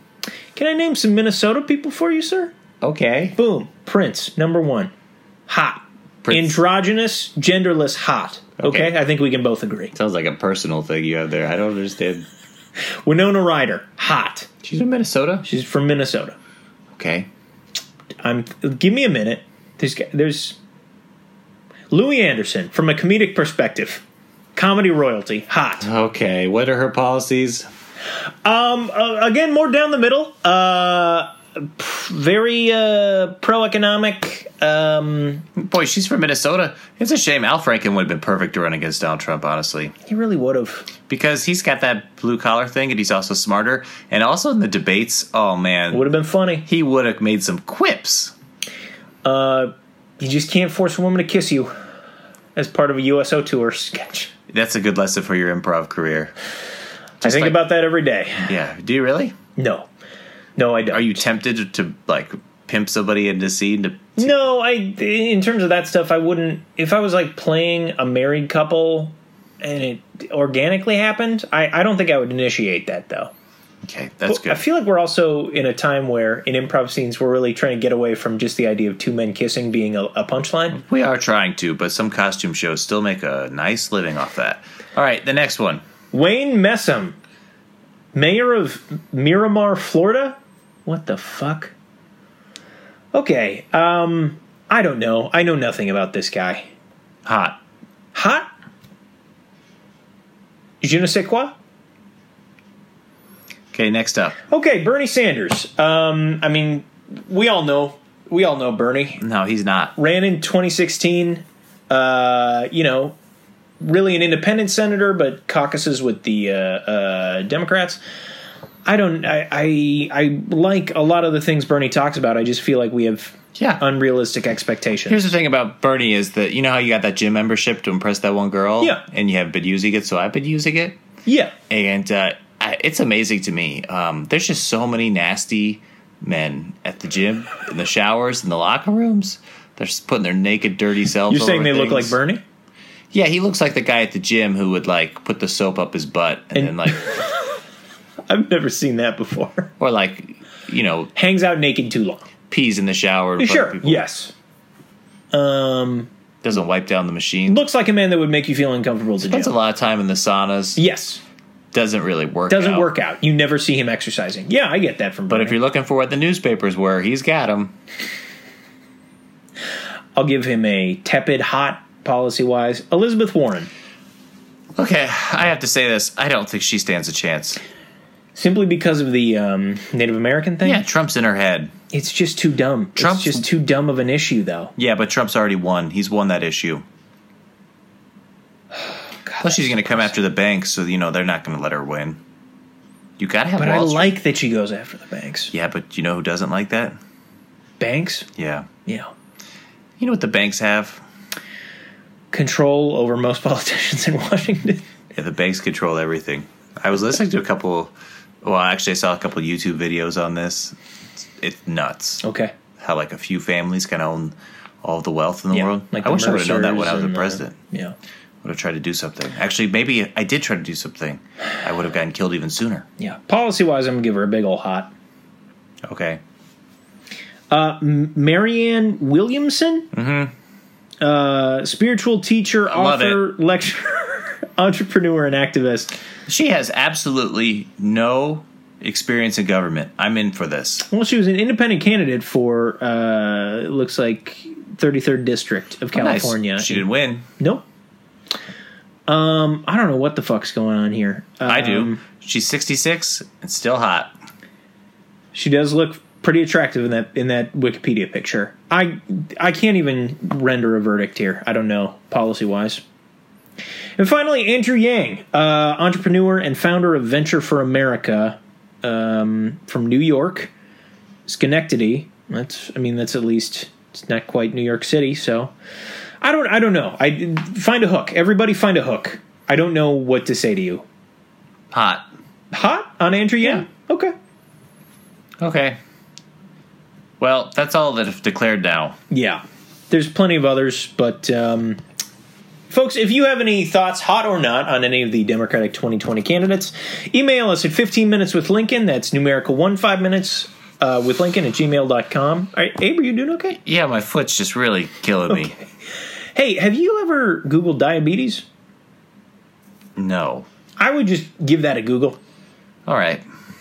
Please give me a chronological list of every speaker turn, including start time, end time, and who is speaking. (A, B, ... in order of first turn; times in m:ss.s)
0:00.6-0:02.5 A
0:02.8-0:03.4 B
0:03.4-0:04.9 A
0:05.5-0:09.9 A
0:06.2-0:06.6 B
0:08.6-0:08.9 B
0:09.9-0:12.3 B
0:12.8-0:14.5 A
0:14.6-0:15.5 B
0:15.4-0:16.4 A
0:16.9-0:17.3 B
0:18.2-0:20.6 A
0:21.9-0:24.0 A
0:24.6-0:25.9 A
0:25.8-0:27.7 B
0:28.4-0:35.4 A
0:35.6-0:39.9 B
0:40.0-0:40.9 A
0:41.1-0:46.1 B
0:45.9-0:46.7 A
0:46.7-0:48.3 B
0:49.2-0:51.7 A
0:52.6-0:54.3 A
0:54.5-0:56.3 B
0:57.2-0:57.7 B
0:57.2-0:58.5 A
0:58.4-0:59.4 B
0:59.6-0:59.9 A
1:00.6-1:01.1 A
1:00.9-1:04.3 B
1:04.2-1:13.3 A
1:13.8-1:14.6 B
1:14.3-1:20.8 A
1:20.7-1:25.8 B
1:26.1-1:27.2 A
1:28.1-1:31.7 A
1:33.1-1:36.7 A
1:37.2-1:37.6 B
1:38.1-1:38.5 A
1:40.8-1:41.6 A
1:43.7-1:44.4 B
1:44.5-1:49.2 A
1:49.2-1:49.9 B
1:50.0-1:53.2 A
1:53.8-1:58.0 A
1:58.9-2:05.2 A
2:03.6-2:03.8 B
2:05.1-2:11.0 B
2:11.3-2:11.6 A
2:11.7-2:22.2 B
2:21.3-2:22.4 A
2:23.1-2:27.1 B
2:26.6-2:27.6 A
2:28.3-2:29.7 A
2:29.8-2:31.1 B
2:31.2-2:32.3 A
2:32.5-2:34.0 B
2:33.4-2:34.3 A
2:35.3-2:36.1 A
2:36.4-2:37.6 B
2:37.5-2:39.5 A
2:39.2-2:40.8 B
2:40.8-2:41.2 A
2:41.7-2:42.9 B
2:42.5-2:45.6 A
2:45.3-2:47.8 B
2:50.2-2:53.7 A
2:54.8-2:57.6 B
2:58.4-3:00.8 A
3:00.6-3:01.7 B
3:01.9-3:04.7 A
3:03.0-3:03.4 B
3:04.8-3:06.8 B
3:09.2-3:10.1 A
3:09.4-3:12.2 B
3:13.2-3:14.1 B
3:13.6-3:15.5 A
3:15.5-3:17.0 B
3:17.8-3:18.3 A
3:18.4-3:18.7 B
3:18.9-3:19.1 A
3:20.0-3:21.0 B
3:22.3-3:24.8 A
3:25.1-3:30.8 B
3:31.4-3:32.2 B
3:32.2-3:32.5 A
3:32.8-3:37.6 B
3:35.5-3:38.0 A
3:38.4-3:42.9 B
3:43.0-3:44.9 A
3:45.8-3:46.2 B
3:47.5-3:49.9 A
3:49.9-3:50.3 B
3:51.0-3:55.9 A
3:52.7-3:53.2 B
3:56.3-4:00.9 B
4:00.8-4:06.9 A
4:05.9-4:07.3 B
4:09.1-4:12.0 A
4:11.4-4:14.1 B
4:15.3-4:22.8 A
4:24.0-4:30.5 A
4:31.3-4:35.5 A
4:36.2-4:40.8 A
4:41.7-4:42.1 B
4:42.5-4:44.1 A
4:45.4-4:45.8 B
4:47.2-4:49.0 B
4:49.1-4:51.8 A
4:52.7-5:03.6 A
5:03.6-5:05.5 B
5:06.4-5:08.4 A
5:10.0-5:10.5 B
5:10.8-5:12.2 A
5:12.9-5:13.2 B